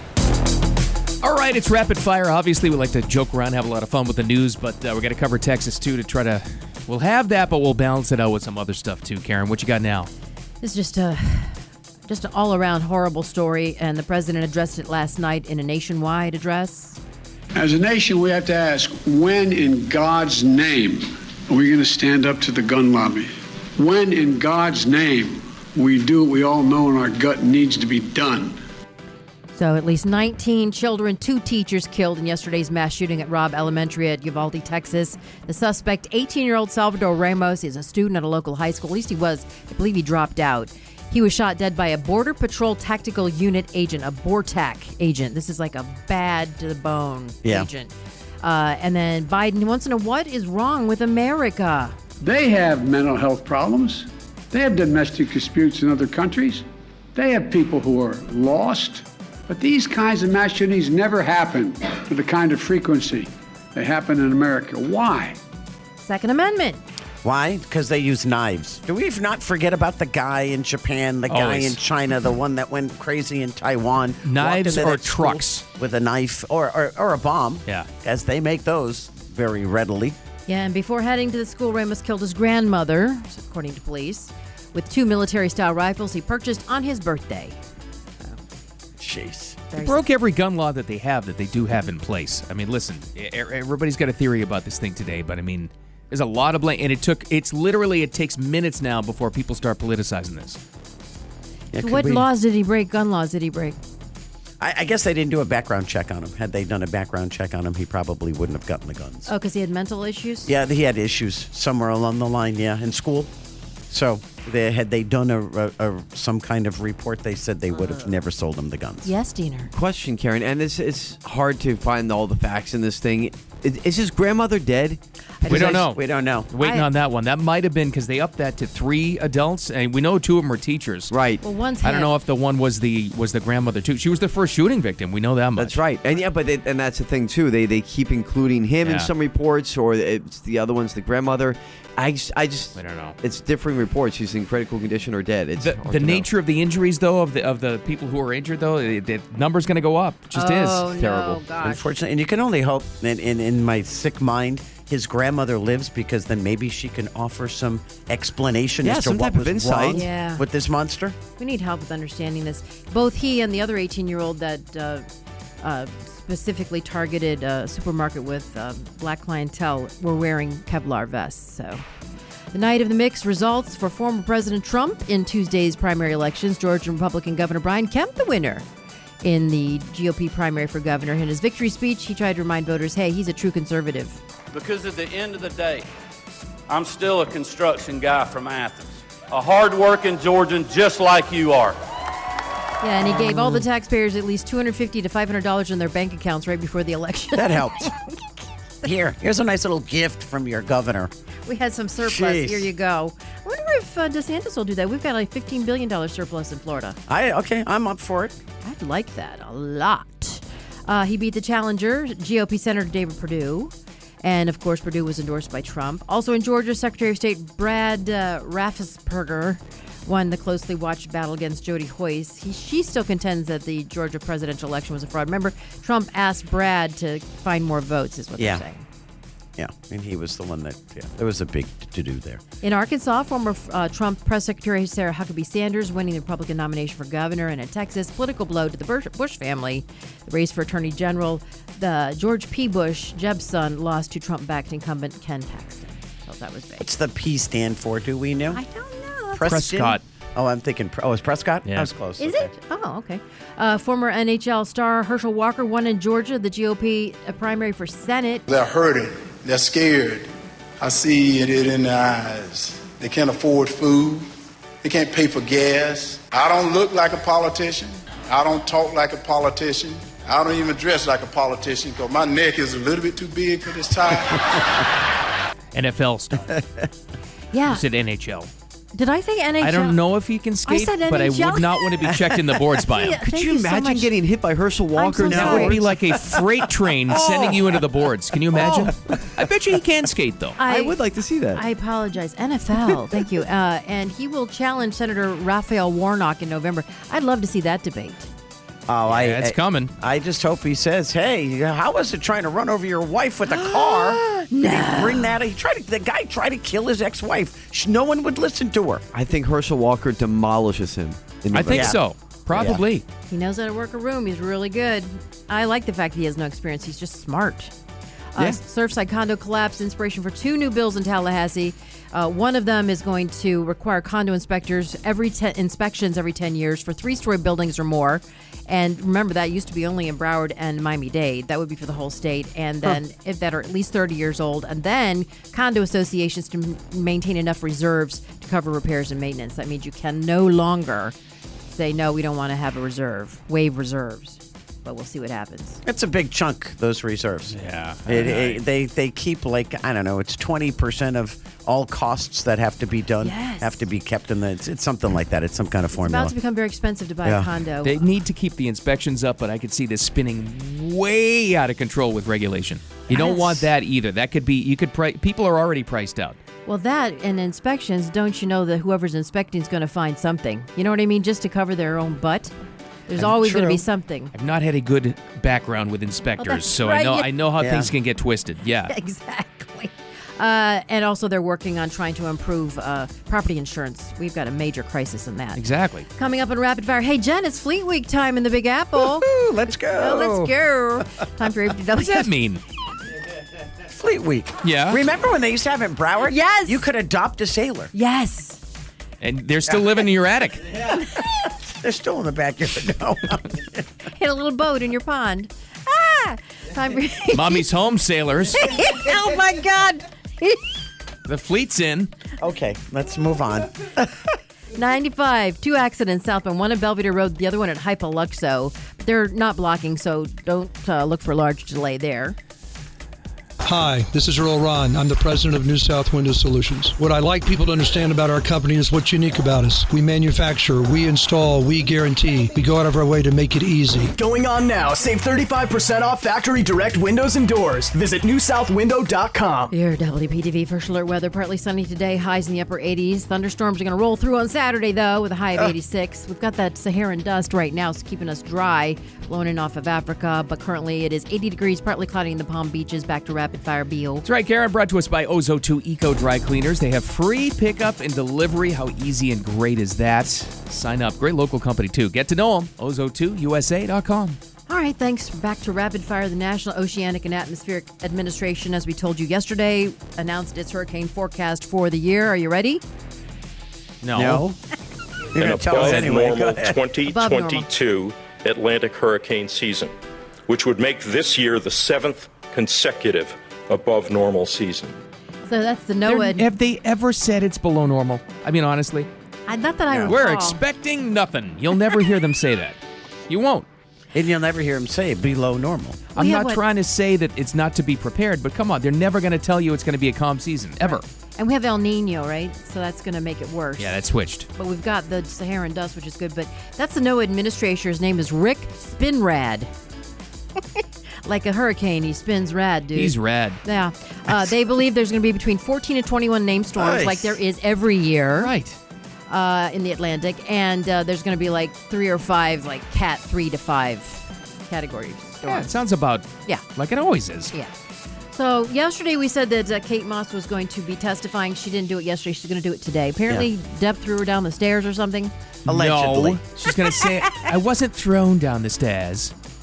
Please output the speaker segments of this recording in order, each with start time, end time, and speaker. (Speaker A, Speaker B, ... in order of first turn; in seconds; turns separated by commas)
Speaker A: 1.2-10.1, Speaker B: 10.6-11.6, Speaker B: 12.1-17.0, Speaker C: 17.6-28.6, Speaker B: 29.5-51.9, Speaker C: 52.2-65.4, Speaker B: 66.0-66.8, Speaker D: 67.2-80.2, Speaker A: 71.3-71.8, Speaker A: 74.2-75.6, Speaker B: 80.5-87.5, Speaker D: 89.0-89.6, Speaker B: 89.7-90.0, Speaker A: 89.8-100.6, Speaker D: 101.7-102.3, Speaker B: 101.8-103.8, Speaker D: 104.6-109.3, Speaker B: 109.3-110.5, Speaker D: 110.5-113.3, Speaker D: 113.9-119.1, Speaker B: 117.7-118.1, Speaker B: 119.0-119.7, Speaker E: 119.8-125.0, Speaker B: 125.4-125.8, Speaker D: 125.4-126.5, Speaker A: 125.5-131.1, Speaker B: 126.6-126.9, Speaker B: 131.4-132.1, Speaker A: 131.8-135.9, Speaker E: 135.6-142.7, Speaker A: 138.8-139.1, Speaker A: 142.7-143.2, Speaker E: 143.2-146.3, Speaker A: 145.6-150.9, Speaker B: 150.3-151.9, Speaker D: 151.6-161.2, Speaker E: 158.8-159.9, Speaker B: 159.9-160.4, Speaker B: 161.4-165.0, Speaker B: 165.6-171.8, Speaker B: 172.5-178.6, Speaker B: 179.2-184.2, Speaker F: 184.5-185.9, Speaker F: 186.7-191.8, Speaker B: 192.8-198.1, Speaker D: 197.3-197.9, Speaker D: 198.8-201.1, Speaker B: 201.4-207.0, Speaker D: 202.0-202.7, Speaker D: 207.1-208.3, Speaker B: 208.6-228.8, Speaker D: 229.6-232.4, Speaker B: 232.6-246.9, Speaker D: 246.8-248.6, Speaker B: 248.5-249.4, Speaker D: 249.3-252.5, Speaker A: 249.4-250.0, Speaker A: 251.7-251.9, Speaker B: 252.2-258.4, Speaker G: 258.5-260.3, Speaker G: 260.8-264.2, Speaker G: 264.8-274.6, Speaker A: 275.7-276.6, Speaker B: 277.5-277.8, Speaker A: 277.6-278.5, Speaker B: 278.9-280.0, Speaker A: 279.6-283.2, Speaker B: 280.6-281.8, Speaker B: 282.9-284.1, Speaker E: 283.4-285.7, Speaker B: 284.9-285.8, Speaker D: 285.2-286.5, Speaker A: 285.5-290.6, Speaker B: 290.6-291.0, Speaker E: 290.7-291.6, Speaker B: 291.5-298.3, Speaker D: 298.9-309.1, Speaker A: 299.1-299.9, Speaker B: 303.5-305.4, Speaker E: 309.1-312.0, Speaker A: 311.5-313.0, Speaker D: 311.7-312.0, Speaker D: 312.5-312.8, Speaker B: 313.3-317.7, Speaker B: 318.3-341.1, Speaker B: 341.7-345.8, Speaker D: 345.8-347.5, Speaker A: 347.5-348.6, Speaker D: 348.1-356.3, Speaker B: 353.2-353.8, Speaker B: 355.9-358.0, Speaker D: 357.2-357.5, Speaker A: 357.8-366.4, Speaker B: 363.1-363.7, Speaker B: 366.6-372.5, Speaker B: 373.1-374.3, Speaker D: 373.1-373.8, Speaker A: 374.3-378.9, Speaker B: 376.4-377.3, Speaker D: 377.6-377.9, Speaker B: 378.9-385.6, Speaker A: 385.5-386.1, Speaker B: 386.1-389.3, Speaker D: 389.0-390.5, Speaker B: 389.9-392.3, Speaker A: 391.9-392.6, Speaker D: 393.8-397.9, Speaker A: 394.6-395.0, Speaker B: 396.3-396.8, Speaker B: 397.9-398.6, Speaker A: 399.2-400.7, Speaker D: 401.8-403.8, Speaker B: 404.1-407.6, Speaker A: 407.3-408.7, Speaker B: 408.5-410.7, Speaker A: 411.2-412.1, Speaker D: 412.4-414.2, Speaker B: 414.7-422.4, Speaker H: 423.6-434.1, Speaker I: 434.1-439.7, Speaker B: 439.7-454.2, Speaker A: 454.2-464.4, Speaker B: 464.7-472.8, Speaker A: 474.0-474.4, Speaker D: 474.1-474.6, Speaker D: 475.3-476.8, Speaker J: 475.4-479.9, Speaker A: 475.7-476.1, Speaker B: 477.1-477.7, Speaker J: 480.5-485.0, Speaker B: 485.4-486.4, Speaker A: 486.0-489.1, Speaker B: 489.5-490.6, Speaker D: 489.9-490.1, Speaker A: 490.0-492.8, Speaker A: 493.3-493.7, Speaker D: 494.1-496.0, Speaker A: 496.1-501.0, Speaker B: 496.1-496.6, Speaker B: 500.8-503.9, Speaker A: 503.8-504.5, Speaker B: 504.5-509.7, Speaker B: 511.2-518.5, Speaker A: 512.9-513.6, Speaker D: 516.8-517.4, Speaker A: 518.4-518.8, Speaker B: 519.3-525.7, Speaker A: 525.4-527.5, Speaker B: 528.3-535.3, Speaker D: 535.6-536.4, Speaker A: 535.6-539.3